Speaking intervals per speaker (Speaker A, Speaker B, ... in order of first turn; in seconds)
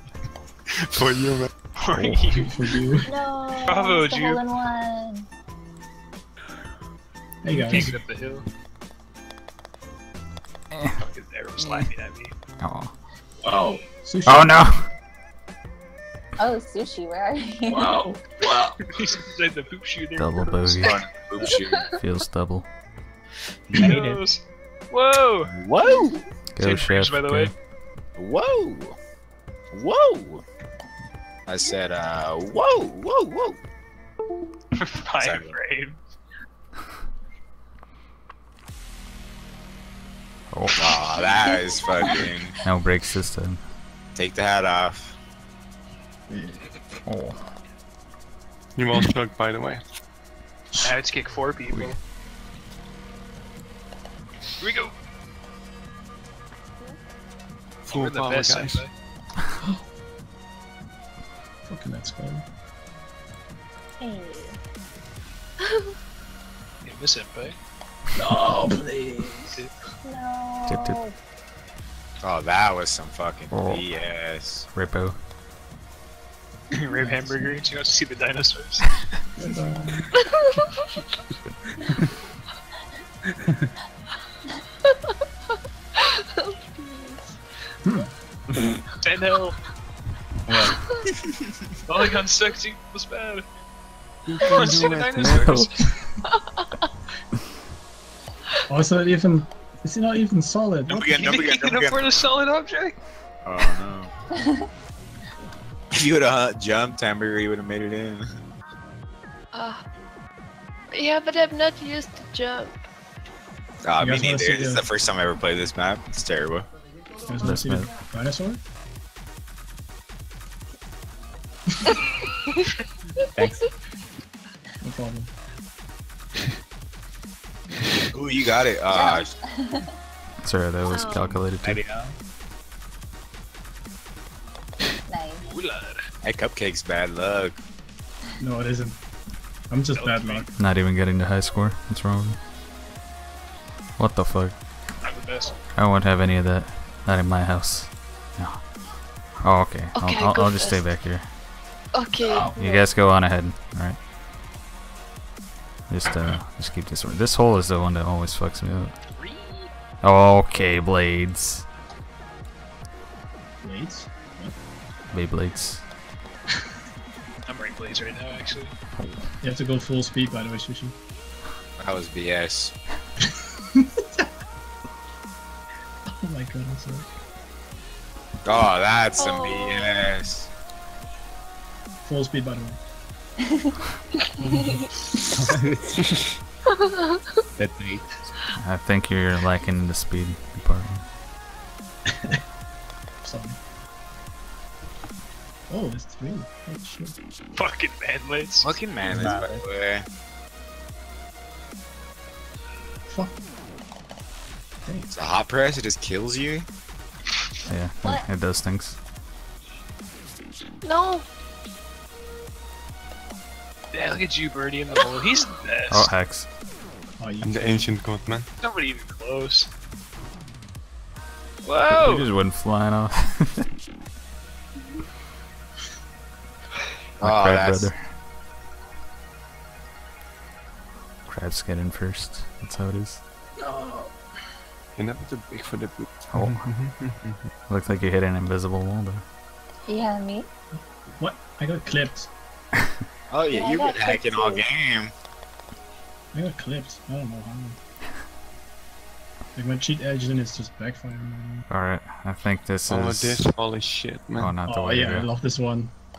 Speaker A: 0.8-1.5, 48.8-49.8, 57.8-58.9, 94.2-95.7, 217.4-218.5, 234.9-237.4, 252.9-254.6
Speaker B: 1.8-2.7, 3.6-4.4, 7.6-8.5, 11.0-12.3, 18.8-21.0, 23.7-25.5, 26.6-27.5, 34.7-36.0, 50.8-52.0, 54.6-54.9, 57.9-58.9, 66.8-67.6, 76.7-79.0, 89.0-89.6, 91.9-93.4, 94.4-95.8, 101.1-103.0, 135.4-136.0, 139.9-140.5, 145.0-145.6, 159.2-159.7, 167.5-168.7, 197.5-198.8, 213.9-216.1, 218.6-219.7, 221.6-222.3
Speaker C: 1.9-2.2, 10.7-11.0, 12.6-12.9, 14.2-14.9, 20.2-21.0, 21.9-22.7, 26.5-27.5, 40.5-40.8, 42.6-43.6, 47.0-47.5, 51.7-52.0, 70.7-71.0, 73.5-73.8, 74.7-75.2, 95.2-95.7, 117.4-117.9, 130.4-131.8, 140.6-142.4, 144.0-144.6, 145.7-148.8, 149.4-151.3, 152.6-154.0, 155.9-158.9, 160.0-161.7, 165.1-165.8, 169.0-169.3, 188.3-191.0, 207.7-209.0, 215.9-216.5, 221.9-223.7, 227.2-228.1, 231.3-233.2, 236.3-236.7, 237.6-239.2, 251.7-253.4, 254.4-255.3
Speaker D: 2.4-3.1, 7.4-8.0, 13.4-14.7, 17.7-18.9, 46.3-46.8, 61.6-62.5, 68.1-69.6, 76.8-77.6, 79.4-80.1, 87.8-88.1, 98.7-101.2, 114.0-114.8, 117.2-118.6, 124.8-125.3, 138.4-139.0, 139.7-140.5, 163.6-164.6, 169.4-170.9, 173.7-174.2, 176.2-177.1, 182.0-182.8, 184.4-185.2, 192.1-192.4, 193.2-193.6, 195.7-197.2, 203.1-203.3, 204.8-205.1, 217.2-217.9, 233.6-234.1, 240.8-242.3, 246.3-247.8, 249.5-251.7, 254.6-255.9
Speaker E: 3.0-5.3, 16.4-18.0, 64.0-64.6, 70.0-71.1, 128.9-129.9, 135.1-135.4, 152.4-152.8, 179.2-179.9, 239.9-240.5, 243.5-244.7
Speaker F: 20.8-21.9, 25.5-26.2, 28.1-28.9, 29.7-30.4, 31.5-33.6, 35.2-35.6, 40.8-42.5, 44.1-45.1, 72.2-74.7, 100.9-102.0, 103.4-104.1, 105.9-108.3, 113.8-116.7, 128.1-129.3, 136.2-137.6, 171.8-172.7, 178.4-180.5, 198.6-200.1, 205.1-206.7, 227.2-227.9, 243.3-245.1
Speaker G: 23.7-24.2, 83.4-83.7, 90.5-90.8, 123.3-123.6, 131.6-132.1, 185.3-186.4, 187.6-188.0, 199.0-199.6
Speaker H: 65.6-65.9, 80.1-80.9, 84.8-85.1, 86.0-87.4, 96.2-96.7, 109.5-109.8, 110.9-112.8, 130.9-131.3, 149.9-150.9, 151.9-152.7, 179.2-179.6, 186.7-187.2, 210.8-211.2